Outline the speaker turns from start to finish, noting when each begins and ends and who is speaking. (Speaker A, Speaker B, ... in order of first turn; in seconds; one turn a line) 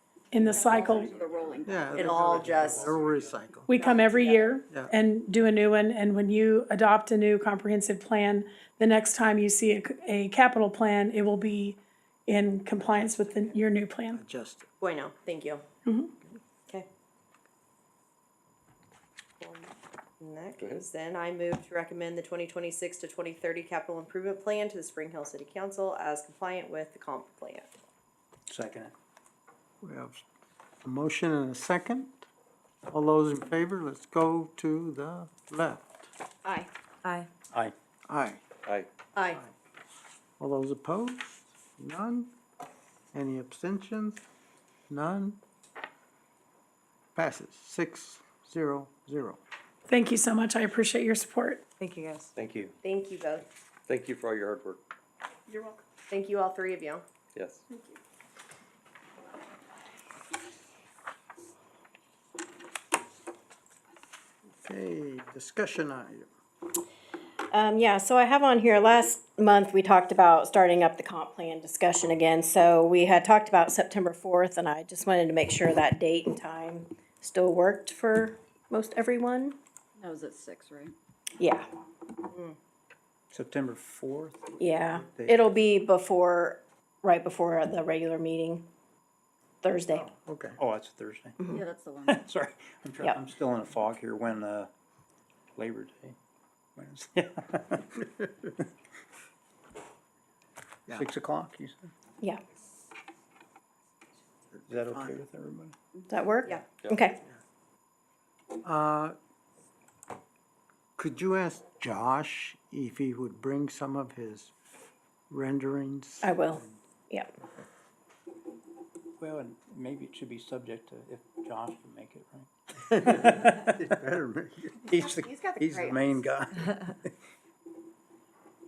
Speaker A: 0.3-1.1
Speaker B: 0.6-2.3
Speaker C: 0.8-3.4
Speaker D: 1.6-3.7
Speaker E: 2.0-2.8
Speaker F: 2.0-2.9
Speaker A: 3.7-14.2
Speaker F: 3.8-4.5
Speaker F: 13.0-13.4
Speaker D: 14.1-14.7
Speaker F: 14.8-15.6
Speaker A: 15.8-16.1
Speaker F: 19.4-27.7
Speaker E: 20.4-21.1
Speaker G: 20.6-20.9
Speaker C: 28.5-28.9
Speaker D: 29.8-30.2
Speaker D: 30.8-32.2
Speaker D: 32.9-36.1
Speaker D: 38.1-38.4
Speaker D: 40.4-42.3
Speaker D: 43.1-44.2
Speaker D: 44.9-45.4
Speaker D: 47.1-49.4
Speaker A: 49.9-51.6
Speaker G: 52.4-52.8
Speaker E: 52.8-53.4
Speaker G: 53.9-54.8
Speaker E: 56.1-57.0
Speaker F: 56.1-57.0
Speaker G: 57.3-57.6
Speaker D: 64.6-66.3
Speaker E: 67.5-79.6
Speaker B: 80.0-80.9
Speaker E: 81.4-81.7
Speaker C: 83.3-85.5
Speaker E: 84.6-88.7
Speaker E: 89.6-90.1
Speaker D: 90.0-90.6
Speaker C: 90.6-94.7
Speaker B: 91.5-92.3
Speaker C: 95.6-96.2
Speaker C: 96.8-98.1
Speaker C: 100.9-101.9
Speaker C: 104.7-105.7
Speaker D: 104.7-105.2
Speaker E: 106.2-107.2
Speaker G: 106.6-107.0
Speaker D: 108.6-109.2
Speaker D: 111.0-114.5
Speaker D: 115.3-116.3
Speaker E: 116.2-116.6
Speaker C: 119.2-123.7
Speaker D: 123.0-124.8
Speaker C: 124.8-127.1
Speaker B: 124.9-126.3